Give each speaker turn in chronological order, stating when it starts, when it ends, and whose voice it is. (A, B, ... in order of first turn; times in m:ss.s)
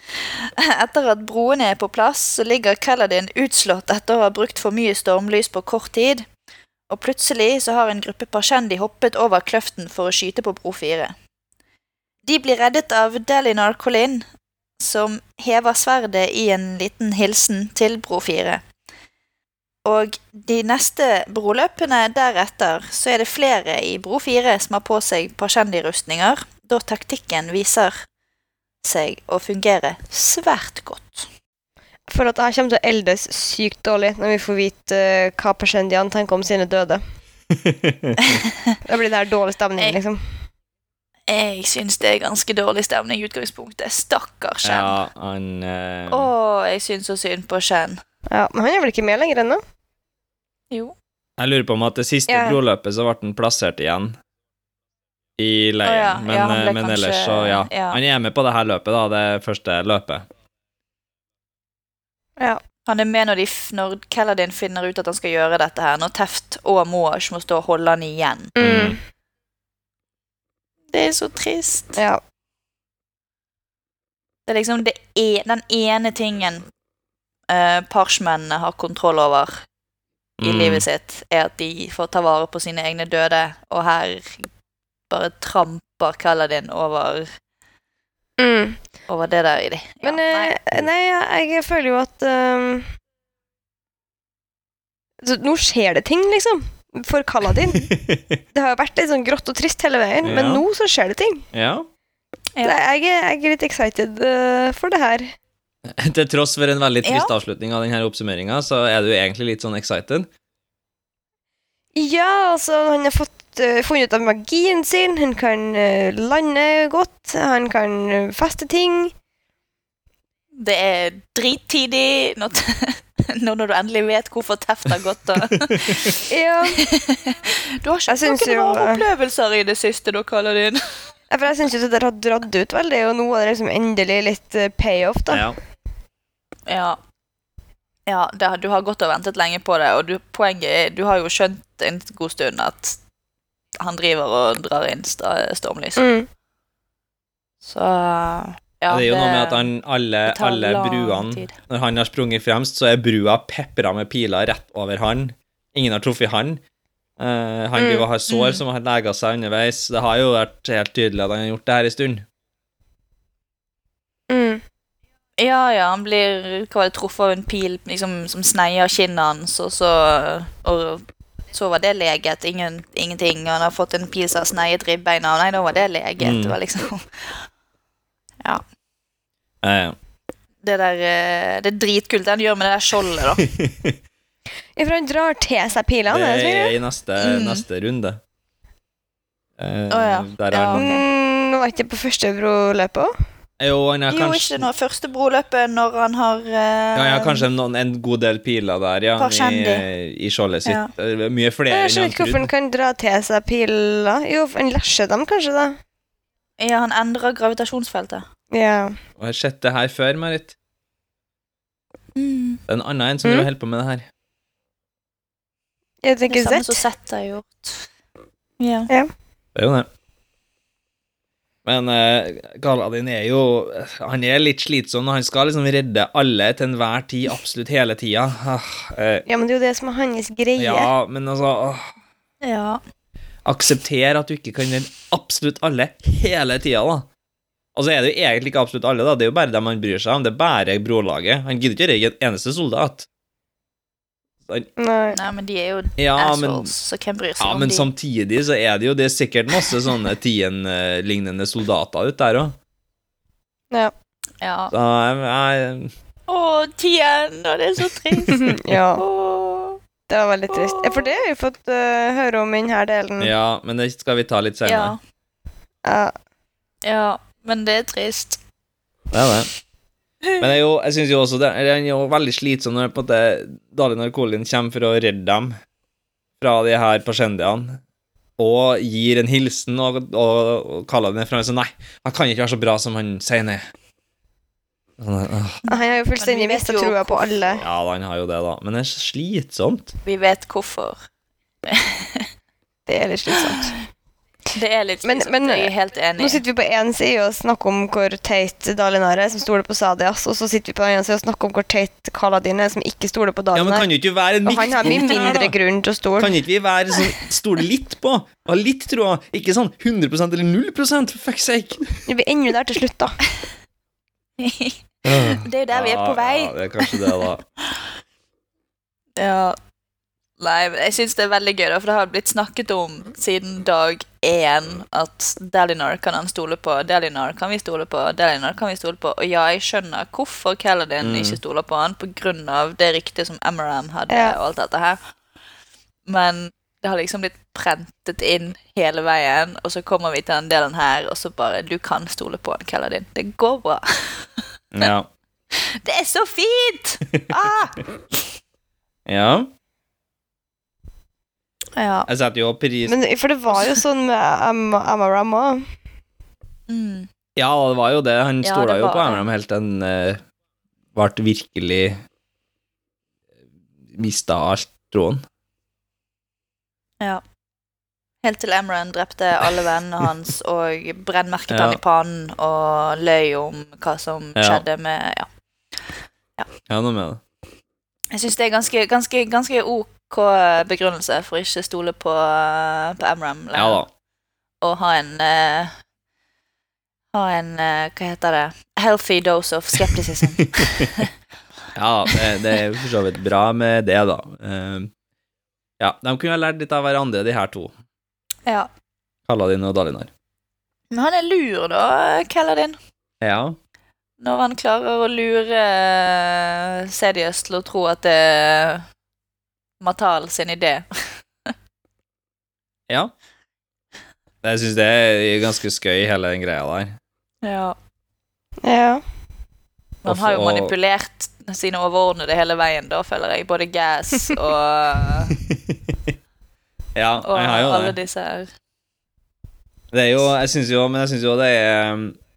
0:00.4-0:06.3 A
0:06.9-0:11.2 A
0:12.3-0:14.3 A
0:14.8-0:18.6 A
0:19.8-0:28.1 A
0:28.8-0:31.3 A
0:32.1-0:37.0 B
0:37.5-0:38.4 C
0:38.8-0:40.5 B
0:41.3-0:45.0 A
0:44.6-0:46.3 C
0:46.1-0:48.0 A
0:48.3-0:49.6 B
0:51.4-0:54.2 C
0:52.3-0:52.6 B
0:55.4-1:00.3 C
0:55.8-0:58.0 A
1:02.9-1:08.6 A
1:08.6-1:09.0 B
1:08.6-1:09.0 C
1:10.9-1:12.0 A
1:12.0-1:12.2 B
1:14.5-1:16.7 A
1:17.5-1:19.7 A
1:20.4-1:20.8 C
1:20.4-1:24.5 A
1:25.1-1:27.3 A
1:28.4-1:28.8 B
1:29.1-1:30.5 A
1:30.0-1:33.0 B
1:35.2-1:37.9 B
1:37.9-1:38.4 C
1:38.5-1:41.5 B
1:40.2-1:40.6 C
1:41.5-1:41.9 C
1:42.6-1:45.4 B
1:45.8-1:50.3 C
1:47.0-1:47.3 A
1:52.0-1:59.1 B
2:00.6-2:06.2 A
2:06.3-2:06.8 B
2:06.8-2:11.1 A
2:08.1-2:09.0 B
2:11.3-2:15.5 B
2:15.3-2:15.6 C
2:16.7-2:17.0 A
2:18.1-2:23.0 A
2:23.8-2:26.0 A
2:26.0-2:26.3 B
2:27.6-2:29.7 A
2:28.9-2:36.6 C
2:30.3-2:31.6 A
2:37.2-2:42.3 C
2:37.8-2:38.1 B
2:38.3-2:38.6 A
2:44.3-2:44.6 B
2:45.4-2:57.5 A
2:56.2-2:56.6 C
2:59.6-3:00.0 C
3:00.6-3:03.5 A
3:03.6-3:04.0 C
3:04.8-3:06.8 B
3:06.1-3:08.2 C
3:07.2-3:07.6 A
3:09.6-3:11.0 C
3:09.9-3:11.0 A
3:10.7-3:13.1 B
3:13.6-3:14.6 C
3:14.1-3:17.4 A
3:17.0-3:22.5 C
3:19.2-3:19.9 A
3:20.7-3:20.9 A
3:21.7-3:25.8 B
3:26.6-3:28.3 A
3:28.5-3:29.0 B
3:29.2-3:30.6 C
3:32.2-3:32.6 A
3:32.7-3:34.1 C
3:36.0-3:36.8 B
3:36.3-3:37.9 A
3:38.6-3:38.9 A
3:39.6-3:39.9 C
3:41.6-3:49.3 C
3:49.3-3:50.9 B
3:50.6-3:51.9 C
3:52.4-3:52.8 A
3:53.4-3:57.1 C
3:57.8-4:03.1 C
4:04.8-4:05.2 B
4:05.1-4:07.9 A
4:06.0-4:06.7 C
4:07.4-4:12.6 C
4:14.4-4:14.7 A
4:14.7-4:15.9 C
4:16.3-4:19.8 A
4:18.4-4:19.0 B
4:20.1-4:23.3 B
4:20.5-4:21.1 A
4:23.2-4:25.0 C
4:24.6-4:25.0 A
4:25.8-4:26.1 B
4:26.8-4:28.4 A
4:29.1-4:29.5 C
4:30.4-4:35.6 C
4:36.4-4:37.8 C
4:38.4-4:43.7 C
4:45.0-4:45.6 C
4:45.6-4:47.6 A
4:45.7-4:47.6 B
4:47.6-4:49.9 C
4:50.0-4:51.0 A
4:51.7-4:52.3 A
4:52.9-4:53.8 B
4:54.5-4:56.4 A
4:55.0-5:03.9 B
5:03.5-5:05.6 C
5:04.4-5:06.3 B
5:06.2-5:12.0 C
5:12.1-5:13.2 B
5:14.4-5:17.2 A
5:15.0-5:17.4 C
5:19.2-5:19.6 A
5:20.4-5:35.0 A
5:31.0-5:31.4 C
5:34.1-5:34.4 B
5:36.1-5:44.9 A
5:44.7-5:45.1 C
5:45.6-5:47.8 A
5:49.1-5:49.5 C
5:51.8-5:52.1 A
5:52.1-5:52.9 C
5:52.9-5:55.7 B
5:56.7-5:57.1 A
5:57.4-6:00.2 C
5:58.4-5:59.2 A
6:00.9-6:02.0 C
6:03.9-6:05.2 C
6:08.2-6:15.3 A
6:11.5-6:11.8 C
6:14.4-6:14.6 C
6:16.7-6:17.2 C
6:18.1-6:23.8 A
6:23.5-6:23.9 C
6:24.6-6:25.8 A
6:27.1-6:31.1 A
6:31.8-6:34.9 C
6:35.8-6:37.7 C
6:39.3-6:40.1 C
6:40.9-6:42.8 A
6:43.2-6:43.6 C
6:44.2-6:48.9 A
6:49.8-6:51.5 A
6:54.4-6:57.0 C
6:57.4-6:57.8 A
6:58.6-6:59.0 B
7:00.0-7:05.4 A
7:00.1-7:00.7 C
7:05.5-7:06.1 C
7:07.0-7:08.0 C
7:07.2-7:08.5 A
7:09.9-7:12.2 C